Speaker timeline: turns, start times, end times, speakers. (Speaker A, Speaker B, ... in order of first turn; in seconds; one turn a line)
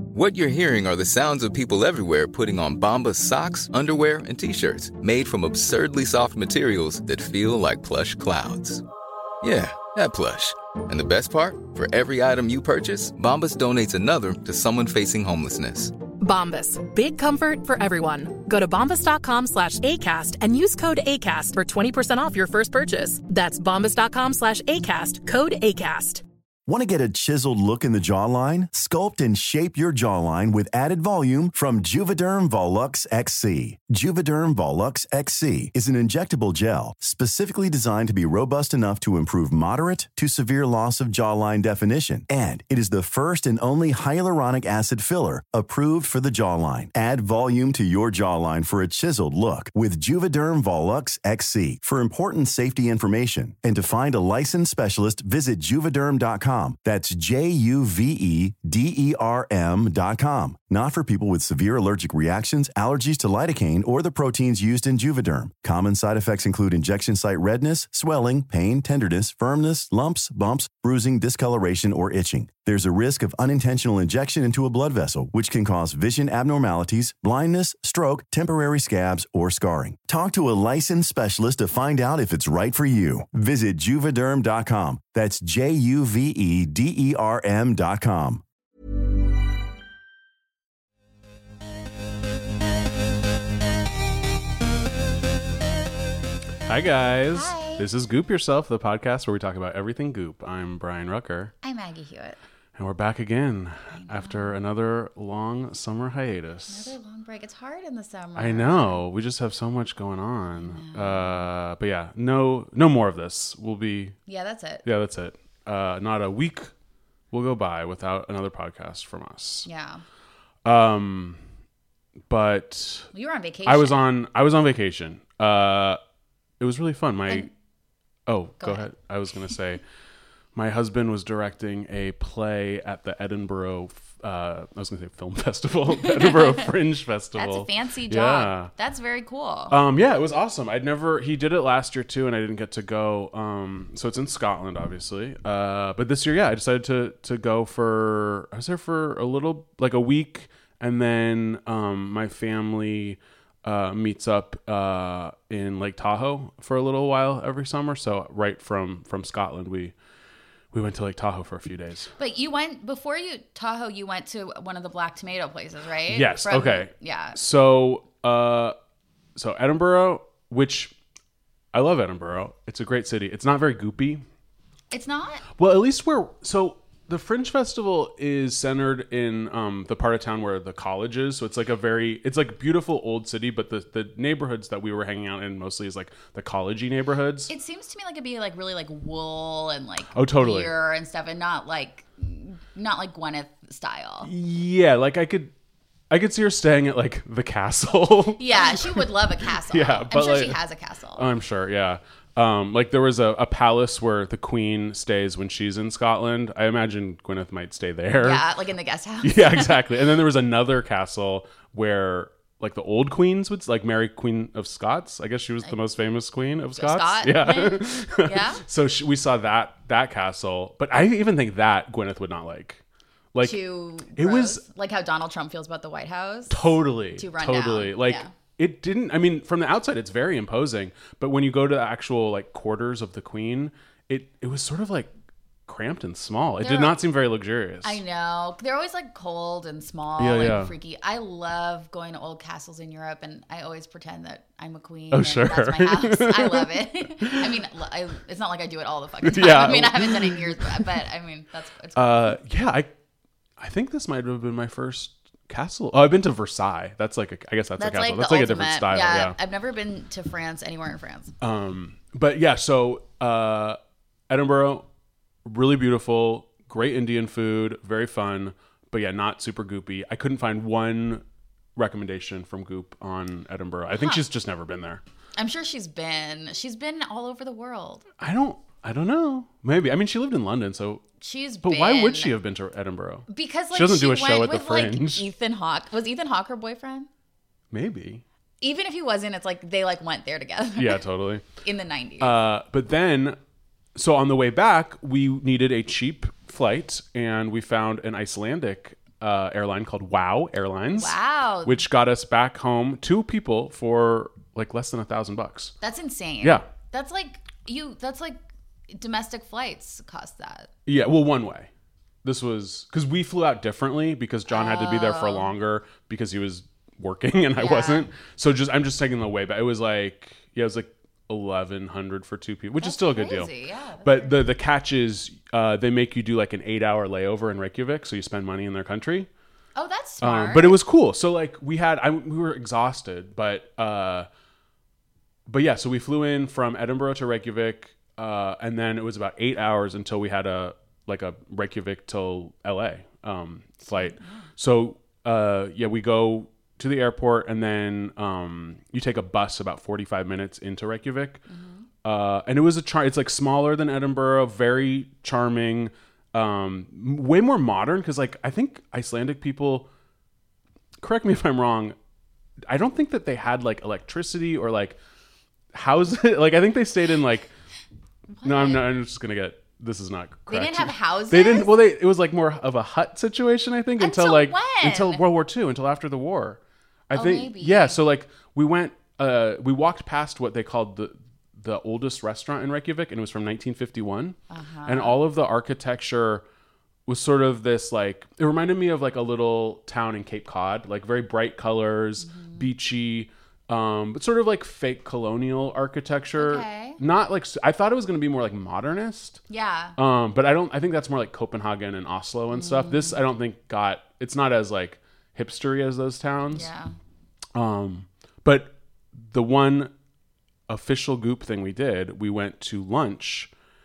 Speaker A: 0.1-8.8
Speaker A: 9.4-16.0
Speaker B: 16.2-26.2
Speaker C: 26.7-88.4
Speaker D: 96.7-101.5
Speaker E: 97.3-97.9
Speaker E: 101.6-102.4
Speaker D: 102.8-106.9
Speaker E: 104.0-104.5
Speaker E: 106.7-109.0
Speaker D: 108.4-114.2
Speaker E: 110.6-111.5
Speaker E: 114.3-114.8
Speaker D: 114.8-116.7
Speaker D: 117.3-119.7
Speaker E: 119.7-120.0
Speaker D: 120.7-121.4
Speaker D: 122.3-123.1
Speaker E: 123.1-124.0
Speaker D: 123.7-126.0
Speaker D: 126.6-127.5
Speaker D: 128.3-129.8
Speaker E: 128.6-128.9
Speaker D: 130.6-138.7
Speaker E: 136.0-136.7
Speaker E: 137.4-139.8
Speaker D: 139.7-159.9
Speaker D: 160.7-162.1
Speaker E: 162.2-167.4
Speaker D: 166.1-168.8
Speaker D: 169.4-170.9
Speaker D: 171.7-174.2
Speaker E: 174.9-175.4
Speaker D: 175.6-187.5
Speaker E: 187.5-194.3
Speaker D: 190.1-190.7
Speaker D: 194.2-195.5
Speaker D: 196.1-199.1
Speaker E: 198.4-201.3
Speaker D: 199.7-200.6
Speaker D: 201.2-208.4
Speaker E: 208.2-209.9
Speaker D: 209.2-222.8
Speaker E: 216.8-218.6
Speaker D: 223.3-223.6
Speaker E: 223.4-228.3
Speaker D: 224.2-224.6
Speaker D: 226.5-235.1
Speaker D: 235.7-238.0
Speaker E: 236.6-237.0
Speaker E: 237.8-252.4
Speaker D: 240.2-240.7
Speaker D: 245.1-247.6
Speaker D: 249.2-250.9
Speaker D: 251.9-252.9
Speaker D: 253.6-259.4
Speaker E: 257.8-261.3
Speaker D: 261.4-263.8
Speaker D: 264.3-264.9
Speaker D: 265.4-271.2
Speaker D: 271.8-275.0
Speaker E: 273.9-274.2
Speaker E: 275.4-278.1
Speaker D: 278.2-281.0
Speaker E: 281.2-282.3
Speaker D: 281.6-285.3
Speaker E: 283.3-287.1
Speaker D: 287.7-288.2
Speaker E: 288.6-291.0
Speaker D: 290.8-291.4
Speaker E: 291.6-292.4
Speaker D: 292.2-293.4
Speaker D: 293.9-305.8
Speaker E: 301.0-301.8
Speaker E: 305.8-310.7
Speaker D: 310.9-311.7
Speaker D: 312.2-323.5
Speaker E: 314.5-315.5
Speaker E: 317.6-318.1
Speaker E: 322.8-324.5
Speaker D: 324.0-329.3
Speaker E: 329.8-330.8
Speaker D: 330.2-334.3
Speaker D: 335.5-351.4
Speaker E: 343.9-344.5
Speaker E: 351.5-351.9
Speaker D: 352.0-359.9
Speaker D: 361.0-361.9
Speaker D: 362.7-365.0
Speaker D: 365.7-367.5
Speaker E: 368.4-368.8
Speaker D: 368.4-386.4
Speaker E: 370.5-371.7
Speaker E: 374.0-375.2
Speaker E: 377.1-378.0
Speaker E: 384.5-385.2
Speaker D: 387.1-399.4
Speaker E: 392.2-392.7
Speaker E: 396.4-397.0
Speaker E: 399.5-400.0
Speaker D: 400.0-406.7
Speaker E: 402.5-403.2
Speaker E: 406.5-406.9
Speaker D: 407.6-409.9
Speaker D: 410.7-413.5